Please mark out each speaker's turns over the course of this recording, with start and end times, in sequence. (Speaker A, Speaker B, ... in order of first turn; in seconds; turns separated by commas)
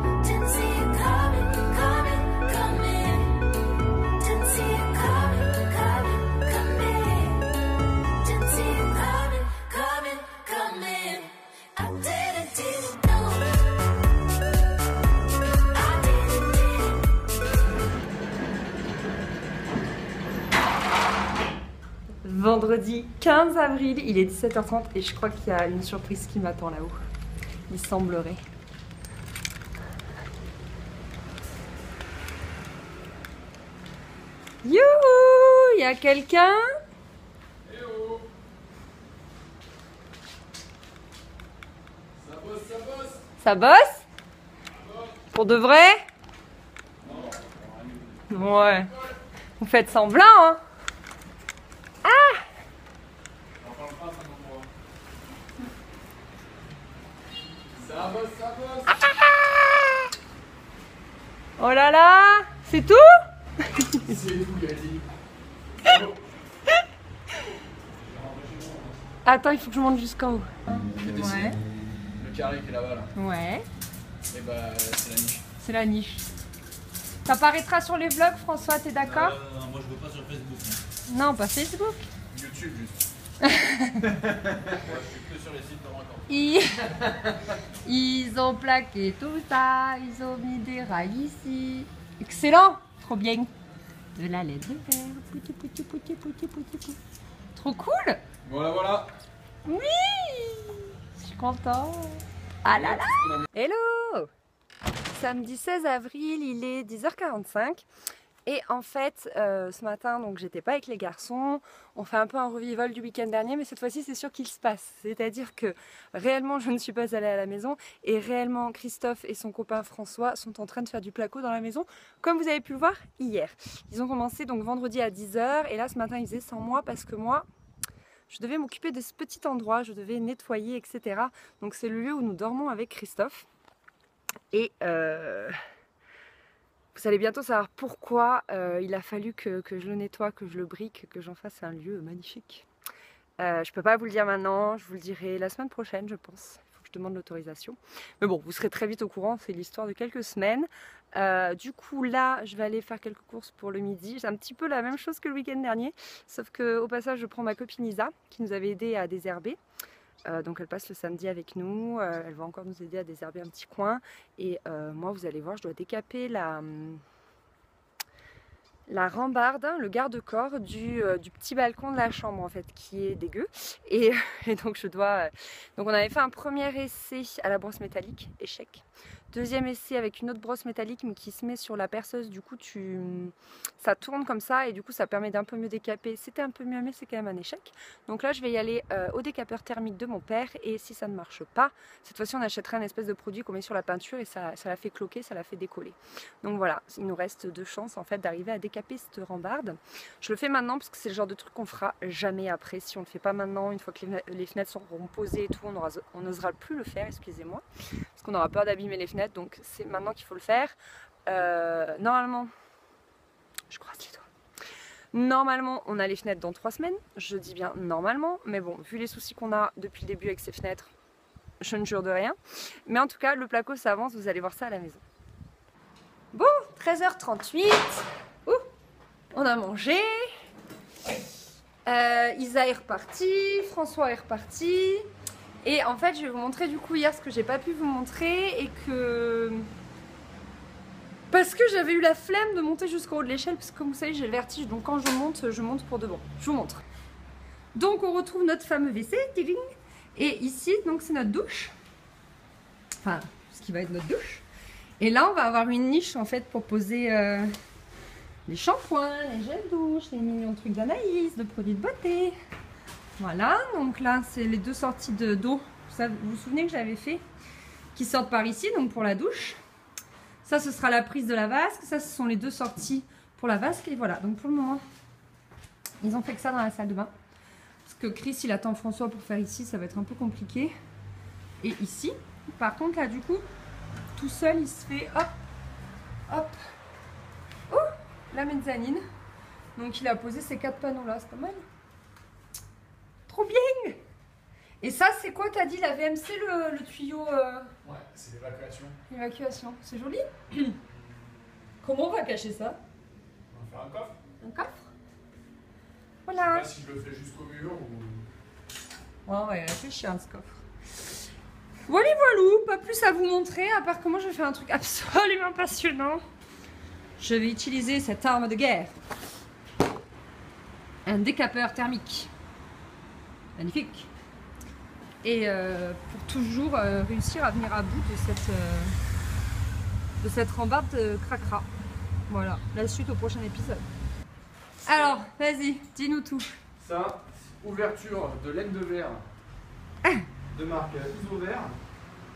Speaker A: 0.2-3.4, Speaker A: 4.2-7.5, Speaker A: 8.2-13.5, Speaker A: 15.7-16.9, Speaker B: 22.2-26.9, Speaker B: 27.7-28.4, Speaker B: 34.6-36.6, Speaker C: 37.6-38.3, Speaker C: 42.2-43.2, Speaker B: 43.4-44.0, Speaker C: 44.8-45.1, Speaker B: 45.3-46.0, Speaker C: 47.0-49.1, Speaker B: 48.3-48.9, Speaker B: 49.6-50.6, Speaker B: 52.0-52.4, Speaker C: 53.6-54.7, Speaker C: 57.7-59.1, Speaker B: 61.6-64.0, Speaker C: 64.0-65.1, Speaker C: 65.8-66.2, Speaker C: 68.0-69.0, Speaker B: 69.2-71.6, Speaker C: 71.0-71.6, Speaker C: 72.2-73.1, Speaker B: 73.2-73.7, Speaker C: 74.3-75.4, Speaker B: 75.6-76.3, Speaker B: 77.2-79.4, Speaker A: 79.7-80.8, Speaker B: 81.1-82.1, Speaker C: 82.3-83.0, Speaker B: 83.4-84.1, Speaker C: 84.0-85.0, Speaker A: 84.8-86.2, Speaker B: 86.3-87.1, Speaker C: 87.0-87.3, Speaker B: 87.8-93.5, Speaker B: 94.2-97.0, Speaker B: 97.5-98.2, Speaker C: 98.4-99.1, Speaker B: 99.7-104.3, Speaker C: 102.7-103.5, Speaker B: 105.1-107.9, Speaker B: 108.5-127.5, Speaker B: 128.3-133.5, Speaker B: 134.5-135.6, Speaker B: 136.9-142.7, Speaker B: 143.4-159.6, Speaker B: 160.2-167.0, Speaker B: 168.9-207.6, Speaker B: 208.2-210.8, Speaker B: 211.3-212.5, Speaker B: 213.7-214.3, Speaker B: 215.1-220.9, Speaker B: 221.6-225.0, Speaker B: 226.3-228.6, Speaker B: 229.3-230.3, Speaker B: 231.9-235.1, Speaker B: 235.6-239.7, Speaker B: 241.3-246.8, Speaker B: 247.8-251.7, Speaker B: 253.0-254.4, Speaker B: 255.0-257.5, Speaker B: 258.4-262.4, Speaker B: 263.2-267.2, Speaker B: 267.9-269.6, Speaker B: 270.4-274.8, Speaker B: 276.0-277.1, Speaker B: 277.8-280.7, Speaker B: 281.6-283.4, Speaker B: 284.1-285.3, Speaker B: 286.3-286.6, Speaker B: 287.7-289.0, Speaker B: 289.8-291.6, Speaker B: 293.3-294.0, Speaker B: 294.8-297.7, Speaker C: 297.8-299.0, Speaker B: 299.1-300.8, Speaker B: 301.8-302.8, Speaker C: 303.5-304.1, Speaker B: 304.4-304.9, Speaker B: 306.2-306.7, Speaker C: 306.4-308.3, Speaker B: 309.2-310.6, Speaker B: 311.9-316.2, Speaker B: 317.2-318.9, Speaker B: 321.0-322.3, Speaker B: 323.6-324.1, Speaker B: 325.2-328.9, Speaker B: 330.2-331.7, Speaker B: 332.3-333.8, Speaker B: 334.8-336.6, Speaker C: 334.9-335.2, Speaker C: 336.8-339.3, Speaker C: 340.5-341.8